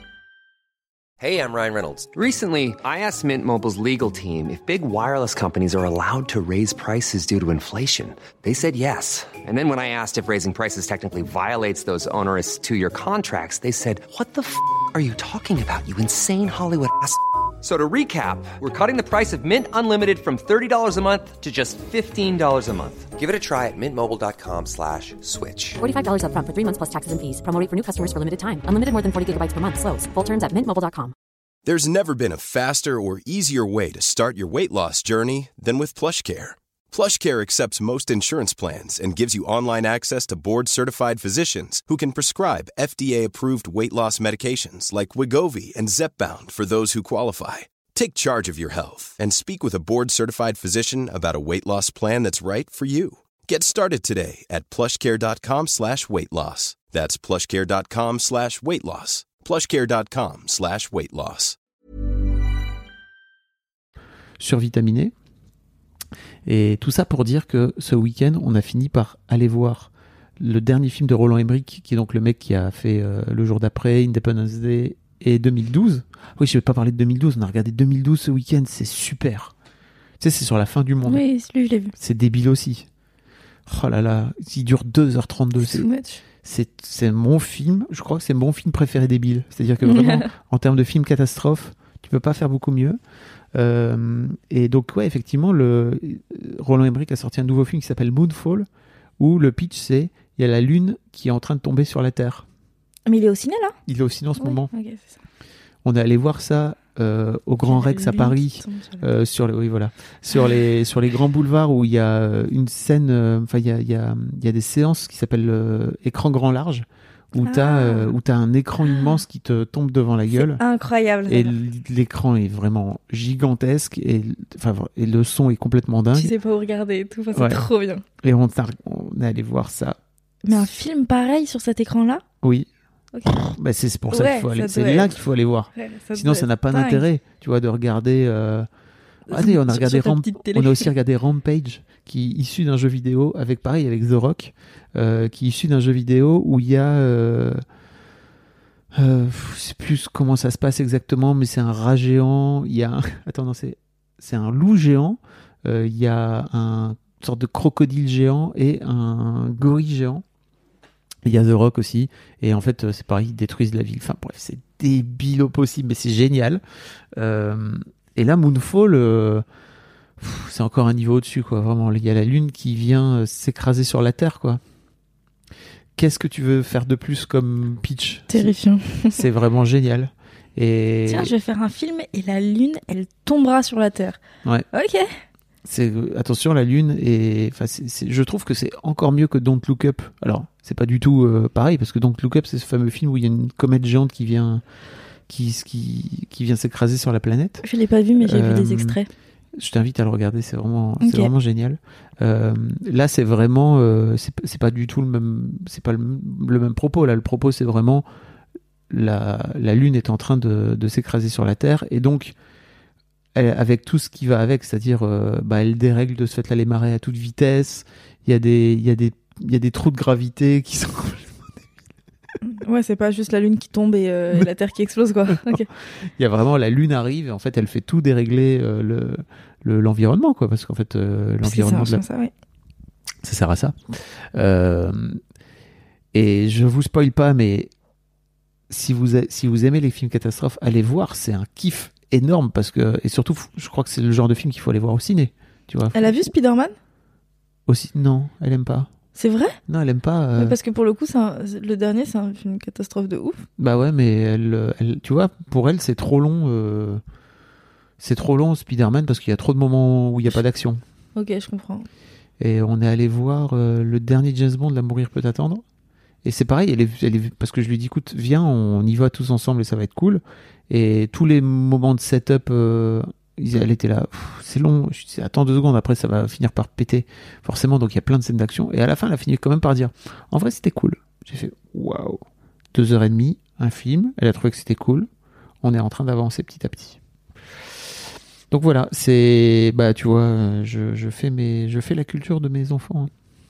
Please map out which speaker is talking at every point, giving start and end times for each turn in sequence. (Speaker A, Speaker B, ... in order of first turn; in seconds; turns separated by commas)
Speaker A: 1.2-25.8, Speaker B: 25.8-31.1, Speaker C: 31.6-61.6, Speaker D: 64.4-65.1, Speaker D: 66.5-79.5, Speaker D: 80.2-81.2, Speaker E: 81.0-81.9, Speaker D: 82.0-82.9, Speaker D: 83.7-85.9, Speaker E: 85.6-86.2, Speaker D: 86.4-93.0, Speaker E: 89.8-90.3, Speaker D: 93.5-98.7, Speaker D: 99.2-102.5, Speaker E: 103.1-103.7, Speaker D: 103.8-104.7, Speaker E: 104.4-105.2, Speaker D: 105.8-120.6, Speaker E: 107.6-109.1, Speaker E: 117.4-118.1, Speaker E: 118.9-119.2, Speaker E: 120.3-121.5, Speaker D: 121.3-126.3, Speaker E: 126.1-128.0, Speaker D: 127.3-127.7, Speaker D: 128.2-130.0, Speaker E: 130.4-132.2, Speaker D: 132.4-132.7, Speaker E: 133.1-133.5, Speaker D: 133.2-138.7, Speaker E: 134.1-135.2, Speaker E: 135.7-137.0, Speaker E: 139.3-140.9, Speaker D: 139.3-147.6, Speaker D: 148.9-160.2, Speaker D: 161.2-166.6, Speaker D: 167.2-169.4, Speaker D: 170.2-174.6, Speaker D: 175.9-178.5, Speaker E: 178.3-179.2, Speaker D: 179.1-181.3, Speaker E: 181.1-184.2, Speaker E: 184.7-185.1, Speaker D: 185.6-194.6, Speaker D: 195.3-197.6, Speaker E: 197.6-199.1, Speaker D: 198.2-199.0, Speaker D: 199.6-208.1, Speaker E: 201.0-201.3, Speaker D: 208.9-212.3, Speaker D: 213.3-221.7, Speaker E: 222.4-225.7, Speaker D: 225.3-225.6, Speaker D: 226.2-232.0, Speaker E: 231.4-232.3, Speaker D: 233.2-233.8, Speaker D: 234.3-235.2, Speaker D: 236.1-237.7, Speaker D: 238.7-246.3, Speaker E: 245.9-246.7, Speaker D: 247.7-248.9, Speaker E: 249.2-249.6, Speaker D: 249.7-250.6, Speaker E: 250.3-253.4, Speaker D: 253.6-257.0, Speaker D: 258.0-260.8, Speaker E: 261.1-261.9, Speaker D: 262.4-265.6, Speaker D: 266.2-285.1, Speaker D: 285.6-287.0, Speaker D: 288.5-293.1